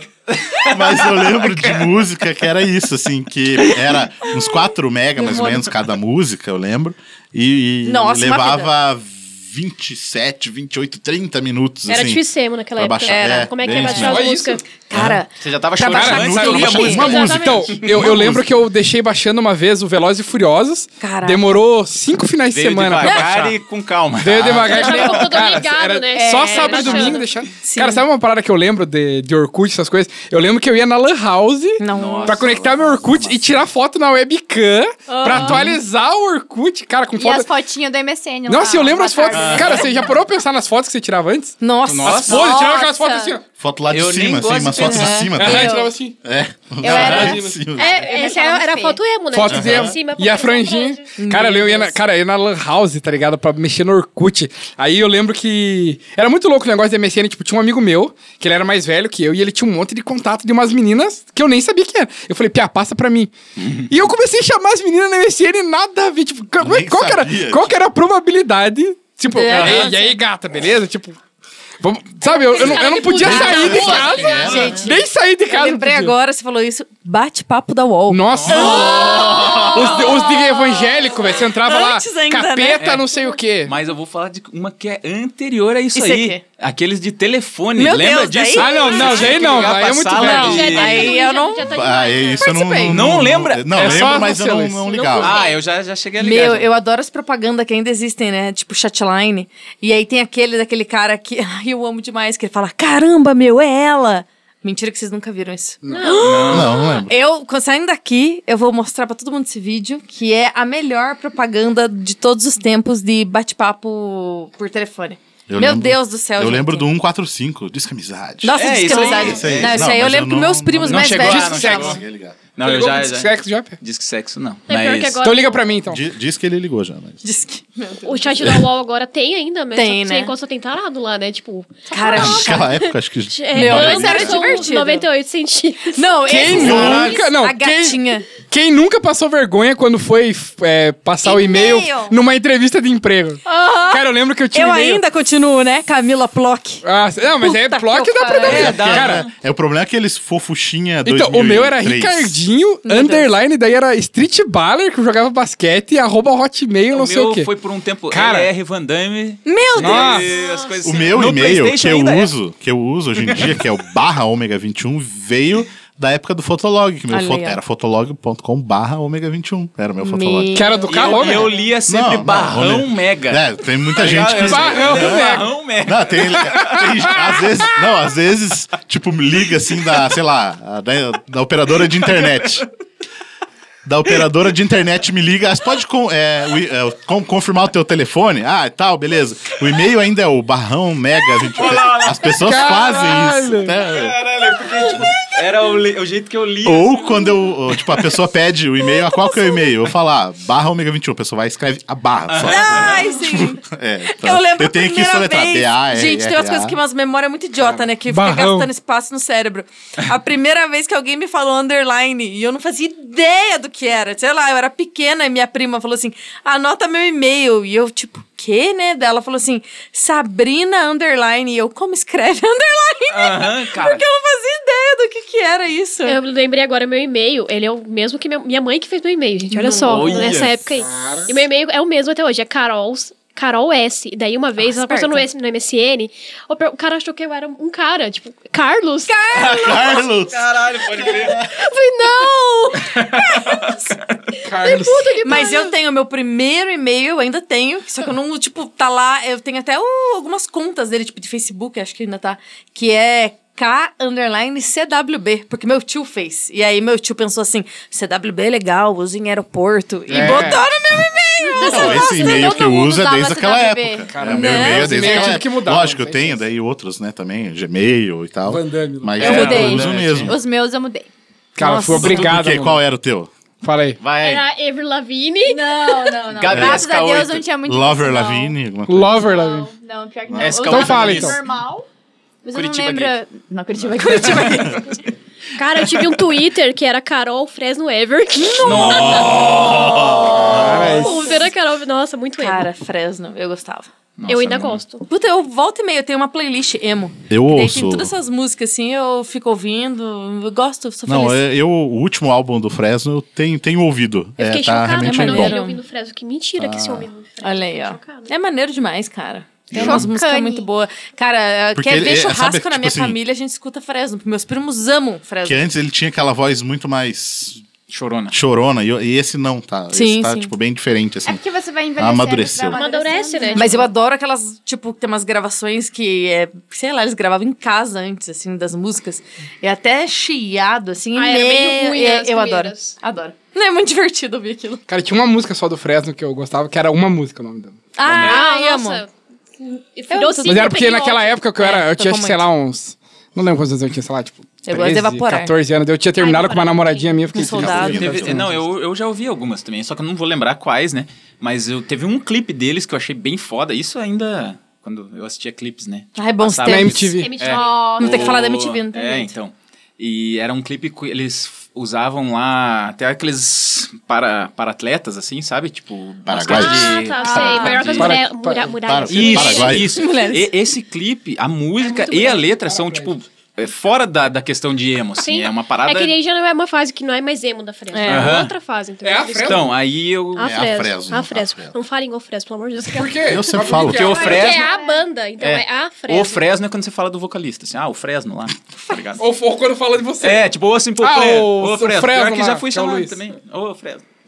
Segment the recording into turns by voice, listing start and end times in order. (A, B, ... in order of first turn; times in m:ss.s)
0:00.3-0:02.1 A
0:00.7-0:12.2 B
0:07.8-0:08.7 C
0:11.9-0:14.6 D
0:12.8-0:14.3 B
0:13.1-0:13.5 C
0:13.9-0:14.6 E
0:14.8-0:17.3 C
0:14.9-0:15.2 B
0:15.4-0:17.9 A
0:15.9-0:23.5 E
0:16.0-0:18.5 B
0:16.9-0:17.7 D
0:21.0-0:21.5 C
0:22.5-0:25.3 A
0:23.0-0:23.3 C
0:24.2-0:37.5 E
0:24.6-0:27.3 D
0:26.2-0:28.0 C
0:31.8-0:32.4 C
0:31.9-0:32.7 A
0:32.5-0:33.6 B
0:35.1-0:35.5 F
0:35.2-0:35.6 C
0:37.2-0:40.1 F
0:38.5-0:43.4 E
0:39.3-0:39.9 A
0:41.6-0:43.0 C
0:41.8-0:42.4 A
0:42.3-0:43.3 F
0:43.6-0:48.0 B
0:43.9-0:45.3 A
0:44.8-0:45.3 C
0:45.3-0:46.1 E
0:46.8-0:49.0 F
0:46.8-0:47.4 A
0:46.9-0:47.6 E
0:47.7-0:51.1 D
0:49.3-1:03.3 E
0:49.5-0:49.9 B
0:51.2-0:52.0 C
1:03.6-1:03.8 A
1:03.9-1:11.2 E
1:06.6-1:07.8 B
1:09.3-1:10.1 C
1:09.5-1:09.9 A
1:11.8-1:16.1 E
1:12.2-1:14.7 D
1:13.2-1:20.6 C
1:13.2-1:14.8 B
1:18.1-1:19.0 E
1:18.3-1:19.0 A
1:18.6-1:20.1 B
1:19.7-1:23.7 E
1:21.4-1:22.8 C
1:22.8-1:23.0 A
1:23.6-1:31.2 A
1:25.9-1:26.4 C
1:27.8-1:29.4 C
1:28.6-1:30.7 E
1:28.7-1:29.7 D
1:30.2-1:31.7 C
1:30.2-1:32.9 D
1:31.7-1:35.4 B
1:32.4-1:33.1 C
1:32.9-1:34.1 A
1:33.7-1:34.8 E
1:34.8-1:35.6 D
1:35.2-1:36.7 A
1:36.2-1:56.9 C
1:45.8-1:46.2 E
1:45.9-1:46.7 D
1:46.2-1:46.8 A
1:46.5-1:47.1 B
1:55.5-2:02.4 B
1:58.4-2:02.0 C
1:58.5-2:00.0 A
2:00.8-2:02.0 A
2:01.2-2:02.0 E
2:02.5-2:05.2 A
2:02.6-2:03.8 E
2:04.7-2:05.7 D
2:05.2-2:06.0 E
2:05.9-2:07.2 B
2:07.2-2:08.6 C
2:08.0-2:17.3 D
2:09.7-2:10.3 C
2:11.9-2:12.9 C
2:12.1-2:14.7 B
2:13.5-2:15.1 C
2:15.9-2:18.3 C
2:16.3-2:25.0 E
2:16.5-2:17.2 B
2:21.2-2:22.2 C
2:23.4-2:26.8 C
2:26.8-2:29.2 E
2:27.4-2:28.7 C
2:28.4-2:32.4 B
2:28.4-2:29.3 A
2:31.0-2:37.5 E
2:32.8-2:33.3 C
2:36.9-2:42.3 A
2:38.1-2:38.5 E
2:39.4-2:40.3 C
2:39.8-2:40.3 E
2:40.3-2:41.2 D
2:40.8-2:50.5 B
2:43.2-2:43.6 A
2:47.1-2:47.6 C
2:50.0-2:51.4 C
2:50.5-2:51.5 E
2:50.9-2:57.4 A
2:51.9-3:02.7 B
2:54.4-2:55.5 E
2:56.5-2:57.2 E
3:01.9-3:02.7 A
3:03.8-3:14.2 B
3:11.4-3:12.9 A
3:12.4-3:13.7 E
3:13.8-3:17.2 A
3:16.6-3:26.8 B
3:19.0-3:19.6 C
3:22.3-3:23.1 A
3:22.4-3:46.2 C
3:27.8-3:28.7 E
3:43.1-3:44.0 A
3:46.0-3:59.8 D
3:49.5-3:50.4 C
3:49.8-3:50.6 A
3:50.8-3:51.3 E
3:54.6-3:55.2 C
3:59.1-4:00.0 C
3:59.5-3:59.8 A
3:59.5-4:00.6 B
4:00.3-4:01.4 A
4:01.1-4:01.4 B
4:01.5-4:02.8 D
4:02.0-4:03.7 C
4:02.9-4:04.2 A
4:04.4-4:05.5 E
4:04.5-4:05.7 D
4:05.2-4:22.5 C
4:20.1-4:20.6 E
4:21.4-4:22.7 D
4:21.6-4:30.4 B
4:21.6-4:24.1 F
4:24.1-4:26.4 E
4:24.2-4:25.4 C
4:28.4-4:29.4 E
4:29.2-4:30.4 A
4:29.2-4:31.1 F
4:31.6-4:32.8 E
4:31.6-4:32.2 C
4:31.9-4:33.3 B
4:33.6-4:34.0 E
4:34.0-4:34.4 A
4:34.2-4:36.2 D
4:35.4-4:38.6 F
4:36.3-4:37.5 A
4:36.5-4:36.9 B
4:37.6-4:39.3 B
4:38.9-4:39.7 E
4:39.1-4:41.9 F
4:40.3-4:40.6 B
4:40.4-4:41.4 A
4:40.7-4:41.4 E
4:42.4-4:44.8 F
4:42.5-4:43.2 A
4:43.9-4:44.6 A
4:44.0-4:44.8 C
4:45.6-4:49.4 D
4:48.4-4:51.5 C
4:48.6-4:50.0 A
4:48.8-4:50.9 B
4:50.5-4:51.2 E
4:50.7-4:52.7 D
4:52.4-4:53.9 C
4:54.2-4:54.8 A
4:54.3-4:55.0 D
4:55.1-5:01.4 C
4:57.3-4:58.1 B
5:01.0-5:05.6 B
5:04.4-5:08.3 D
5:05.0-5:05.8 C
5:05.1-5:05.5 F
5:06.6-5:07.1 B
5:07.4-5:15.6 C
5:09.7-5:10.7 F
5:09.7-5:10.1 B
5:11.7-5:13.2 B
5:15.4-5:17.6 B
5:17.9-5:18.3 A
5:18.3-5:21.4 B
5:19.9-5:20.5 C
5:21.2-5:23.9 F
5:22.0-5:22.8 B
5:22.7-5:23.8 D
5:23.5-5:34.8 C
5:31.1-5:33.0 D
5:34.9-5:37.8 E
5:38.0-5:39.0 C
5:38.0-5:38.4 A
5:38.2-5:39.1 D
5:39.6-5:41.4 D
5:40.1-5:40.8 C
5:40.4-5:48.6 E
5:41.6-5:42.4 C
5:44.6-5:45.5 C
5:46.2-5:47.4 D
5:47.3-5:48.2 C
5:47.4-5:48.5 B
5:47.9-6:08.2 A
5:56.2-5:57.1 C
5:56.6-5:57.3 E
5:57.1-5:58.0 D
5:57.5-5:58.4 F
5:58.0-5:59.3 C
6:06.2-6:07.7 B
6:06.5-6:09.9 D
6:07.8-6:08.7 E
6:08.8-6:10.0 B
6:09.1-6:16.1 A
6:09.9-6:10.5 C
6:11.8-6:13.1 E
6:15.2-6:19.7 D
6:17.9-6:18.3 C
6:18.0-6:18.5 A
6:19.0-6:19.7 E
6:19.5-6:20.5 A
6:20.4-6:23.3 D
6:20.4-6:21.7 B
6:22.9-6:24.5 E
6:23.2-6:24.2 B
6:23.8-6:24.7 A
6:24.0-6:26.6 D
6:24.1-6:25.0 F
6:25.4-6:29.2 A
6:29.2-6:30.4 E
6:30.2-6:34.0 A
6:31.0-6:33.2 E